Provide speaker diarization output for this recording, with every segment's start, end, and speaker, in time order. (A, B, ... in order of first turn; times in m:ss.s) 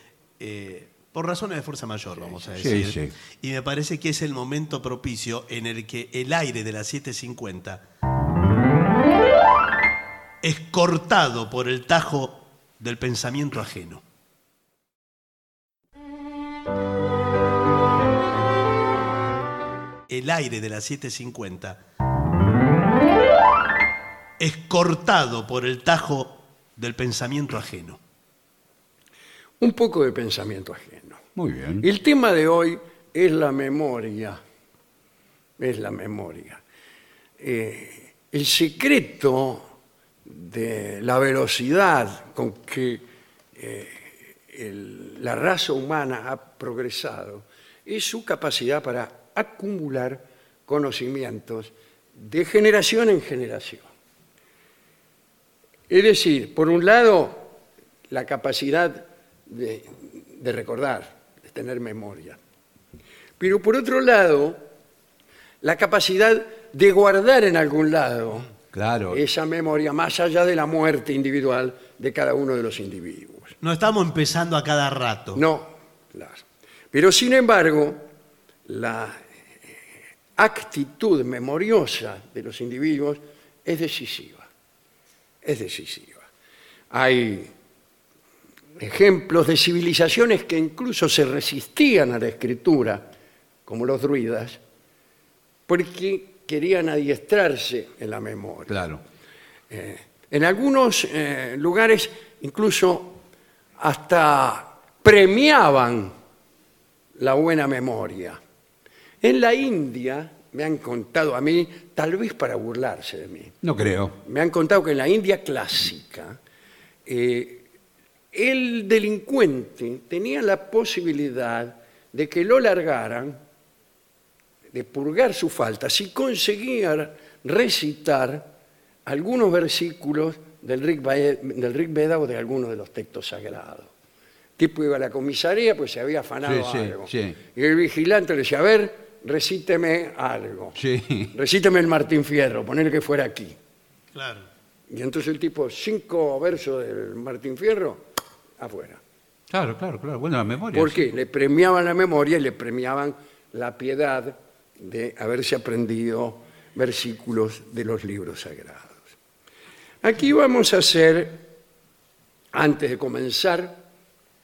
0:00.4-0:07.8 A
0:02.6-0:03.1 B
0:10.4-0:14.0 A
0:20.1-0:21.8 A
0:24.4-0:28.0 A
0:29.6-0:31.2 C
0:31.4-0:31.8 B
0:31.8-0:34.4 C
0:35.6-0:36.6 C
0:37.4-0:39.7 C
0:40.2-0:43.0 C
0:43.6-0:53.9 C
0:55.9-0:57.5 C
0:58.1-1:02.4 C
1:03.4-1:04.6 C
1:05.6-1:08.5 C
1:08.7-1:09.2 B
1:09.1-1:13.6 C
1:13.6-1:15.4 A
1:15.3-1:18.0 C
1:18.6-1:19.2 C
1:20.4-1:24.5 C
1:25.4-1:26.3 C
1:26.9-1:27.5 C
1:28.8-1:33.1 C
1:33.6-1:34.6 C
1:35.7-1:38.9 C
1:38.7-1:39.0 B
1:39.7-1:43.2 C
1:43.8-1:46.1 C
1:47.2-1:48.4 C
1:49.2-1:53.6 C
1:53.6-1:54.2 B
1:54.2-1:56.4 C
1:57.0-1:57.6 C
1:58.3-2:03.4 C
2:04.7-2:08.5 C
2:09.0-2:13.9 C
2:14.6-2:20.8 C
2:16.4-2:17.4 B
2:20.8-2:21.3 B
2:21.3-2:23.6 C
2:24.1-2:24.5 A
2:24.9-2:28.0 C
2:28.6-2:29.0 C
2:29.5-2:31.0 B
2:30.7-2:39.0 C
2:40.0-2:41.4 C
2:42.5-2:43.8 C